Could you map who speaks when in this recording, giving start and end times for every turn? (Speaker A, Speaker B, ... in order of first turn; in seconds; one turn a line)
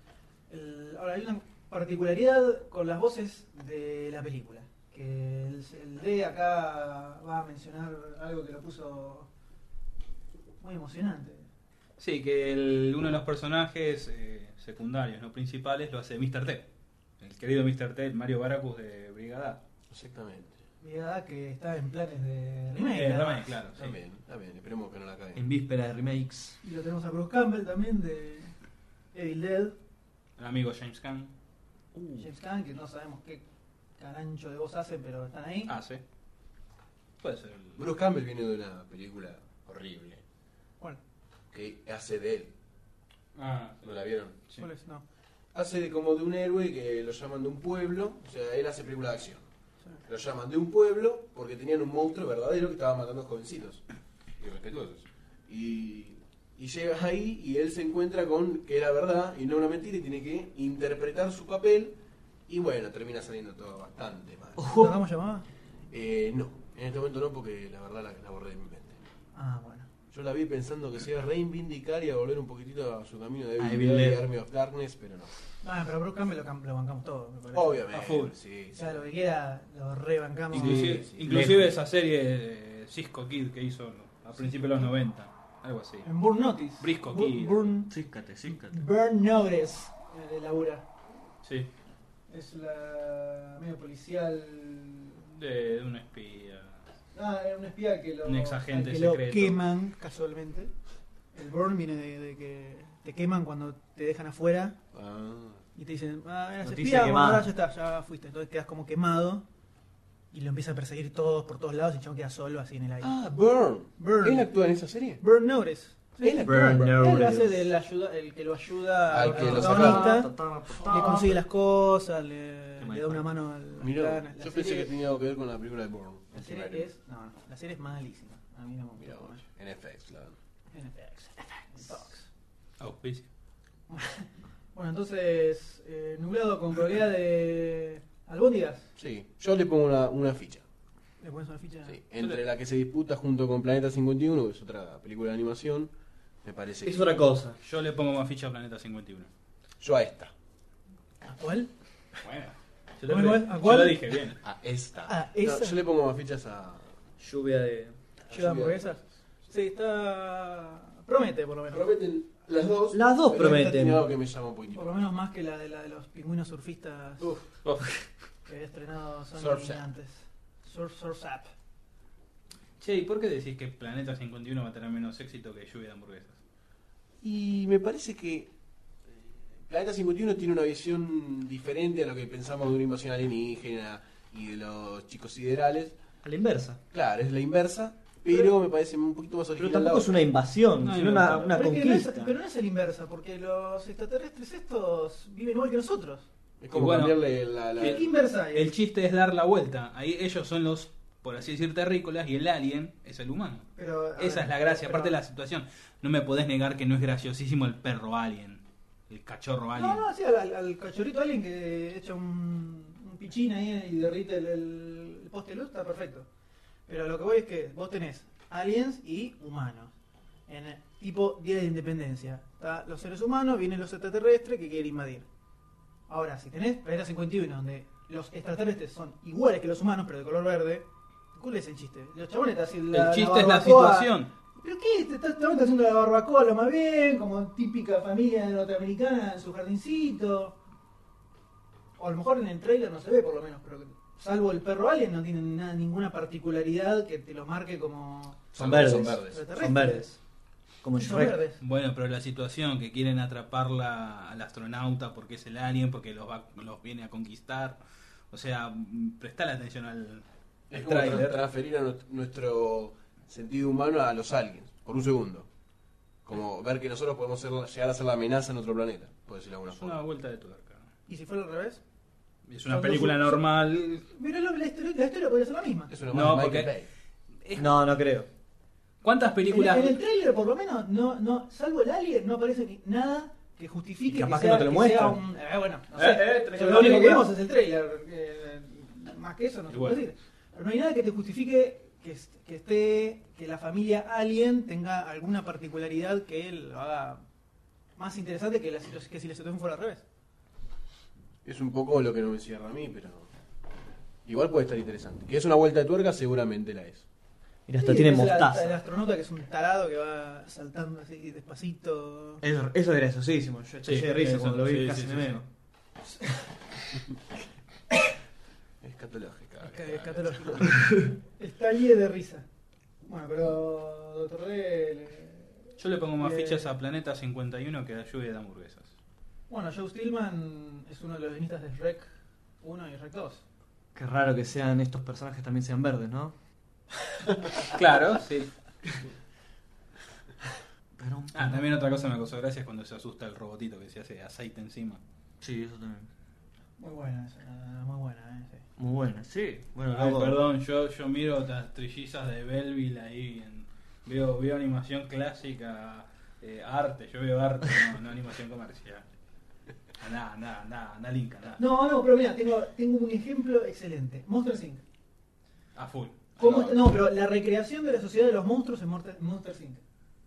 Speaker A: 0.5-9.3
Speaker A: 10.6-11.5
Speaker B: 12.0-16.7
Speaker B: 17.2-19.6
Speaker C: 19.9-20.6
Speaker A: 20.8-23.6
Speaker B: 22.8-24.0
Speaker C: 23.8-25.5
Speaker D: 25.4-26.6
Speaker A: 26.6-28.5
Speaker A: 29.1-29.8
Speaker B: 30.4-31.3
Speaker D: 32.0-32.2
Speaker A: 32.2-33.4
Speaker A: 34.0-35.7
Speaker B: 35.7-36.0
Speaker B: 37.2-37.9
Speaker C: 37.8-40.2
Speaker C: 41.5-42.5
Speaker B: 43.4-44.7
Speaker C: 43.8-44.4
Speaker A: 44.6-45.0
Speaker C: 45.5-49.5
Speaker C: 50.1-53.8
Speaker C: 54.4-64.8
Speaker D: 64.6-65.0
Speaker A: 64.7-65.5
Speaker C: 65.9-69.0
Speaker A: 69.3-69.9
Speaker C: 70.1-75.3
Speaker D: 73.6-74.3
Speaker A: 75.6-77.9
Speaker C: 77.5-79.0
Speaker B: 77.9-78.3
Speaker A: 78.8-81.1
Speaker B: 80.5-86.1
Speaker C: 80.6-81.5
Speaker D: 81.2-81.8
Speaker A: 84.3-84.9
Speaker A: 86.0-87.9
Speaker B: 86.8-87.7
Speaker D: 87.9-88.8
Speaker A: 88.5-90.9
Speaker B: 91.4-91.7
Speaker A: 92.3-95.2
Speaker B: 95.3-96.8
Speaker A: 97.1-100.7
Speaker B: 98.2-99.7
Speaker A: 101.3-104.8
Speaker C: 104.9-105.6
Speaker A: 105.8-109.5
Speaker D: 106.6-107.5
Speaker A: 110.3-113.2
Speaker C: 113.0-115.2
Speaker A: 114.0-114.5
Speaker A: 115.2-124.9
Speaker C: 116.2-117.1
Speaker D: 116.4-117.7
Speaker C: 119.1-120.2
Speaker D: 119.2-121.5
Speaker C: 120.8-121.2
Speaker D: 122.8-123.3
Speaker C: 123.8-126.9
Speaker A: 126.3-129.4
Speaker C: 129.0-130.4
Speaker A: 130.7-132.3
Speaker B: 132.8-133.3
Speaker A: 133.9-138.9
Speaker C: 139.0-140.7
Speaker A: 141.2-142.0
Speaker C: 141.9-145.9
Speaker B: 142.2-142.4
Speaker C: 146.4-147.3
Speaker D: 146.8-147.6
Speaker B: 147.6-149.3
Speaker C: 149.8-150.3
Speaker A: 151.2-151.7
Speaker B: 152.2-154.4
Speaker A: 153.1-154.0
Speaker C: 154.4-156.9
Speaker A: 155.1-155.8
Speaker D: 157.2-158.0
Speaker C: 158.3-159.0
Speaker A: 158.3-161.9
Speaker C: 161.7-164.9
Speaker D: 162.9-164.1
Speaker A: 164.7-167.3
Speaker C: 167.2-167.5
Speaker B: 167.7-168.0
Speaker A: 168.5-171.5
Speaker C: 169.3-169.8
Speaker B: 172.8-176.4
Speaker C: 177.2-178.5
Speaker C: 179.6-186.0
Speaker D: 186.2-186.8
Speaker C: 186.9-190.1
Speaker D: 189.6-192.3
Speaker B: 190.8-191.6
Speaker A: 191.5-196.3
Speaker C: 196.6-198.1
Speaker B: 196.7-198.0
Speaker A: 197.8-198.7
Speaker B: 198.5-210.1
Speaker A: 203.8-205.2
Speaker A: 209.7-216.3
Speaker A: 216.9-219.9
Speaker A: 220.5-225.3
Speaker A: 226.1-240.6
Speaker B: 232.9-234.3
Speaker A: 242.0-248.5
Speaker C: 248.5-249.4
Speaker D: 248.5-250.2
Speaker A: 249.2-250.1
Speaker D: 250.8-251.4
Speaker A: 250.9-251.6
Speaker B: 251.6-257.8
Speaker B: 258.3-261.4
Speaker C: 260.7-265.5
Speaker C: 266.2-270.0
Speaker B: 269.7-270.9
Speaker A: 271.1-271.8
Speaker B: 272.5-274.1
Speaker A: 272.7-273.4
Speaker A: 274.1-275.9
Speaker C: 275.9-276.9
Speaker B: 276.1-276.7
Speaker B: 277.4-277.8
Speaker D: 277.6-278.3
Speaker B: 279.0-280.0
Speaker A: 279.5-297.2
Speaker D: 284.1-285.2
Speaker D: 285.9-287.3
Speaker B: 289.7-290.0
Speaker A: 298.0-300.0
Speaker C: 301.4-303.3
Speaker C: 304.2-307.1
Speaker D: 307.7-308.8
Speaker A: 307.8-312.4
Speaker D: 312.4-315.5
Speaker B: 313.8-315.4
Speaker C: 318.8-320.8
Speaker A: 319.6-322.4
Speaker A: 323.1-325.7
Speaker B: 325.8-328.9
Speaker A: 326.2-326.7
Speaker A: 329.5-332.1
Speaker A: 332.6-333.4
Speaker D: 333.9-336.4
Speaker B: 337.6-338.5
Speaker D: 341.0-341.9
Speaker B: 341.3-345.0
Speaker D: 345.4-346.1
Speaker A: 346.8-348.6
Speaker D: 348.8-350.4
Speaker B: 349.9-359.1
Speaker B: 360.0-361.6
Speaker A: 361.6-364.8
Speaker B: 365.8-366.9
Speaker A: 366.4-369.8